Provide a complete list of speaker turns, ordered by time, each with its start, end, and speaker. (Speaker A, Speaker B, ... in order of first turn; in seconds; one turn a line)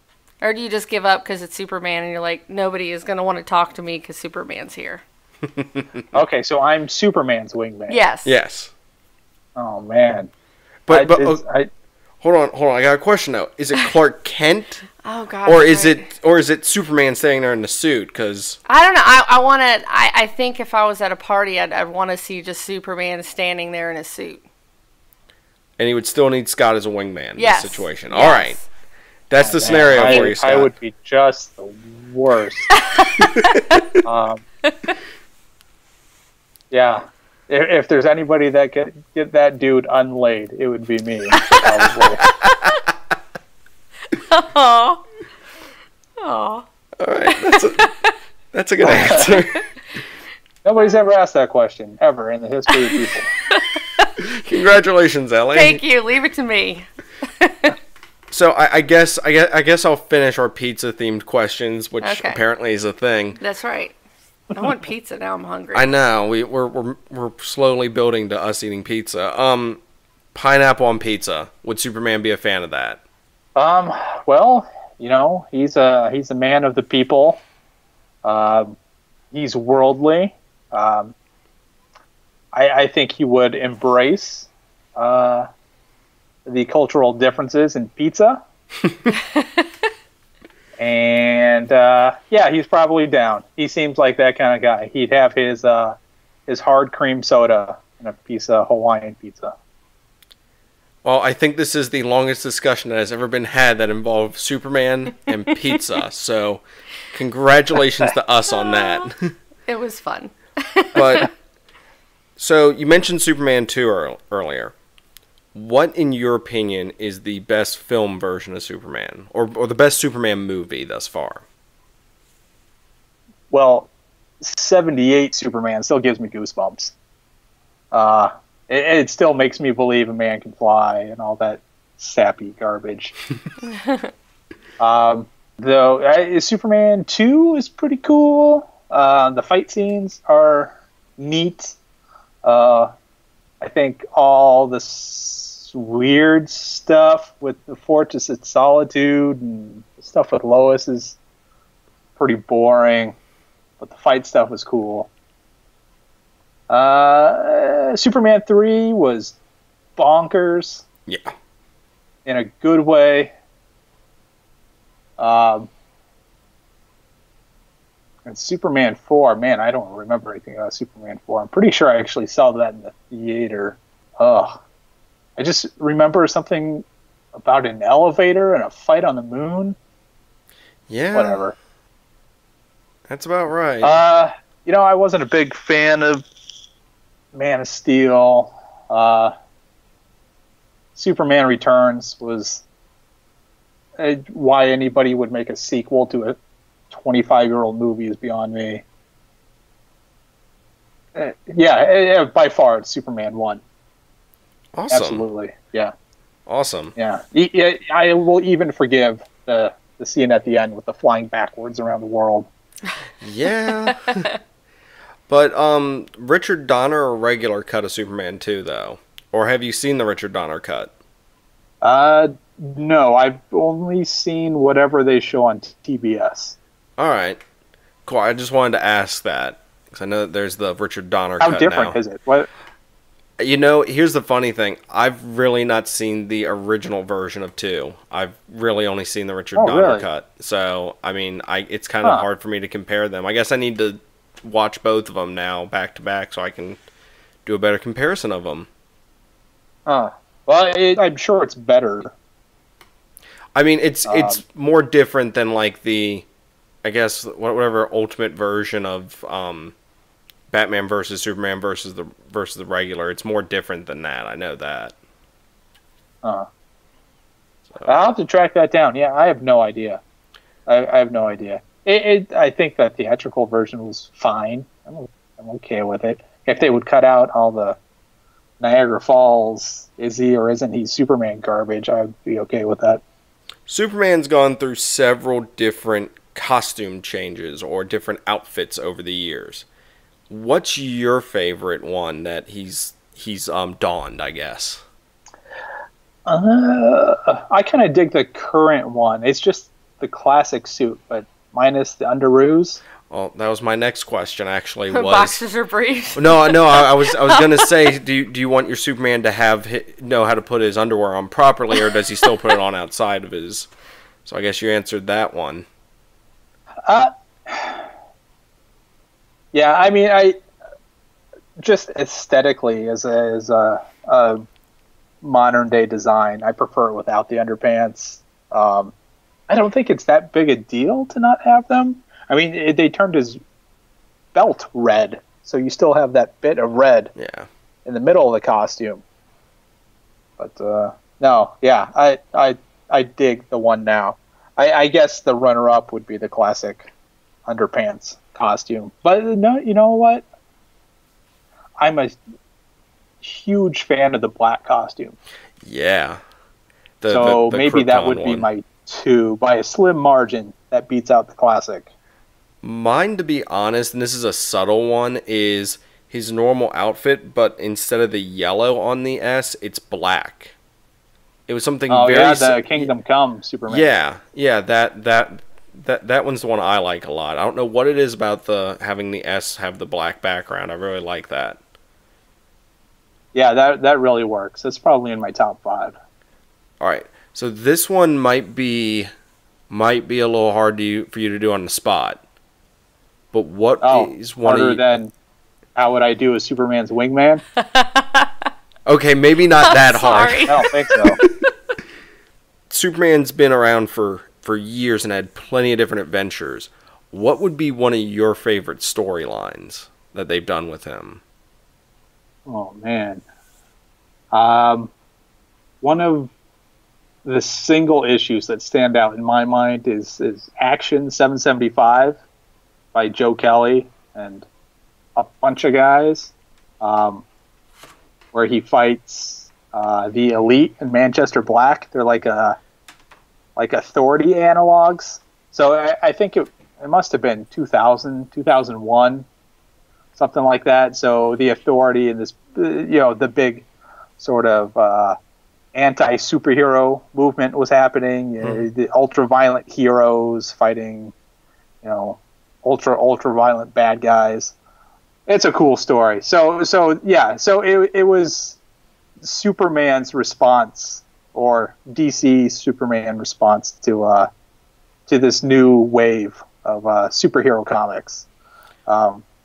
Speaker A: 0.4-5.0
Speaker B: 5.6-5.9
Speaker C: 6.1-8.0
Speaker A: 7.9-8.3
Speaker B: 8.2-8.7
Speaker C: 9.6-10.3
Speaker B: 10.9-11.4
Speaker C: 10.9-11.7
Speaker B: 12.2-14.9
Speaker A: 15.0-16.1
Speaker B: 15.5-18.6
Speaker A: 18.7-24.4
Speaker B: 25.8-28.6
Speaker A: 27.4-28.7
Speaker B: 29.3-30.7
Speaker C: 29.4-32.7
Speaker A: 30.0-30.3
Speaker A: 32.8-33.8
Speaker C: 34.0-34.5
Speaker A: 34.7-34.9
Speaker C: 36.7-42.2
Speaker A: 42.3-42.7
Speaker A: 44.1-45.0
Speaker A: 46.2-46.6
Speaker B: 47.0-47.9
Speaker A: 47.3-48.1
Speaker B: 48.5-49.6
Speaker C: 48.8-49.3
Speaker C: 50.6-53.3
Speaker A: 53.5-54.1
Speaker B: 54.2-55.8
Speaker A: 55.5-56.9
Speaker A: 57.4-57.8
Speaker B: 58.3-63.4
Speaker A: 62.0-62.4
Speaker A: 63.4-64.0
Speaker A: 64.5-65.8
Speaker B: 65.7-69.8
Speaker B: 70.3-73.0
Speaker C: 73.6-77.4
Speaker C: 78.2-78.8
Speaker C: 79.3-81.1
Speaker C: 82.5-85.5
Speaker C: 86.5-88.4
Speaker C: 90.8-99.5
Speaker B: 101.0-109.3
Speaker A: 108.6-109.1
Speaker A: 109.7-111.3
Speaker B: 111.0-111.3
Speaker B: 112.4-114.7
Speaker B: 115.5-121.4
Speaker C: 123.5-123.9
Speaker C: 124.4-126.9
Speaker C: 127.9-133.2
Speaker A: 133.7-134.1
Speaker C: 134.8-141.8
Speaker C: 142.4-142.9
Speaker C: 143.6-151.2
Speaker C: 152.2-153.2
Speaker C: 153.8-155.1
Speaker C: 156.7-159.4
Speaker C: 160.0-160.8
Speaker B: 161.1-161.3
Speaker C: 162.3-163.3
Speaker C: 165.2-165.7
Speaker C: 168.2-174.6
Speaker C: 175.4-179.8
Speaker B: 180.9-181.4
Speaker C: 181.1-181.6
Speaker B: 183.1-184.0
Speaker C: 183.8-186.2
Speaker C: 187.3-189.3
Speaker C: 190.9-192.6
Speaker C: 194.0-196.4
Speaker C: 196.9-198.8
Speaker C: 201.2-203.6
Speaker B: 204.7-205.3
Speaker C: 204.9-205.9
Speaker B: 206.5-206.9
Speaker C: 207.0-212.5
Speaker B: 213.2-214.3
Speaker A: 213.9-214.3
Speaker B: 215.3-220.9
Speaker C: 221.8-226.6
Speaker B: 227.0-227.4
Speaker B: 228.1-232.0
Speaker C: 231.4-232.5
Speaker B: 233.4-246.8
Speaker C: 239.6-240.1
Speaker B: 247.4-248.7
Speaker C: 249.9-252.1
Speaker B: 253.6-256.3
Speaker C: 254.1-254.4
Speaker B: 256.8-259.7
Speaker B: 260.5-264.9
Speaker B: 267.7-268.0
Speaker C: 267.9-270.0
Speaker C: 270.7-277.8
Speaker C: 278.6-283.0
Speaker B: 283.7-289.7
Speaker B: 290.3-294.8
Speaker C: 296.3-302.8
Speaker B: 303.1-305.4
Speaker A: 304.9-307.7
Speaker B: 306.1-313.7
Speaker B: 314.2-315.7
Speaker C: 316.9-317.8
Speaker C: 319.5-320.4
Speaker C: 321.6-324.4
Speaker C: 325.2-328.9
Speaker C: 329.5-333.4
Speaker C: 334.4-337.1
Speaker B: 337.2-337.5
Speaker C: 337.9-339.0
Speaker C: 340.4-346.9
Speaker C: 347.5-350.3
Speaker C: 351.8-352.2
Speaker C: 353.2-355.2
Speaker B: 355.6-356.2
Speaker B: 357.0-358.5
Speaker C: 357.1-361.9
Speaker B: 362.6-370.6
Speaker B: 371.5-372.9
Speaker C: 371.9-373.9
Speaker B: 373.7-381.6
Speaker C: 383.3-386.0
Speaker B: 386.8-389.1
Speaker B: 389.7-392.2
Speaker B: 393.3-394.8
Speaker C: 393.8-395.1
Speaker C: 395.8-397.4
Speaker A: 397.6-398.5
Speaker B: 398.9-401.3
Speaker A: 399.6-400.6
Speaker C: 400.5-401.2
Speaker B: 402.7-411.2
Speaker C: 412.5-413.2
Speaker C: 414.3-414.9
Speaker C: 415.8-416.3
Speaker C: 417.2-422.2
Speaker C: 422.9-424.5
Speaker C: 425.2-427.2
Speaker C: 428.3-432.6
Speaker C: 433.6-439.3
Speaker C: 440.2-443.6
Speaker C: 444.2-445.2
Speaker C: 445.7-451.1
Speaker C: 451.8-454.5
Speaker C: 455.3-458.6
Speaker C: 459.2-464.3
Speaker C: 465.1-468.3
Speaker C: 468.9-469.2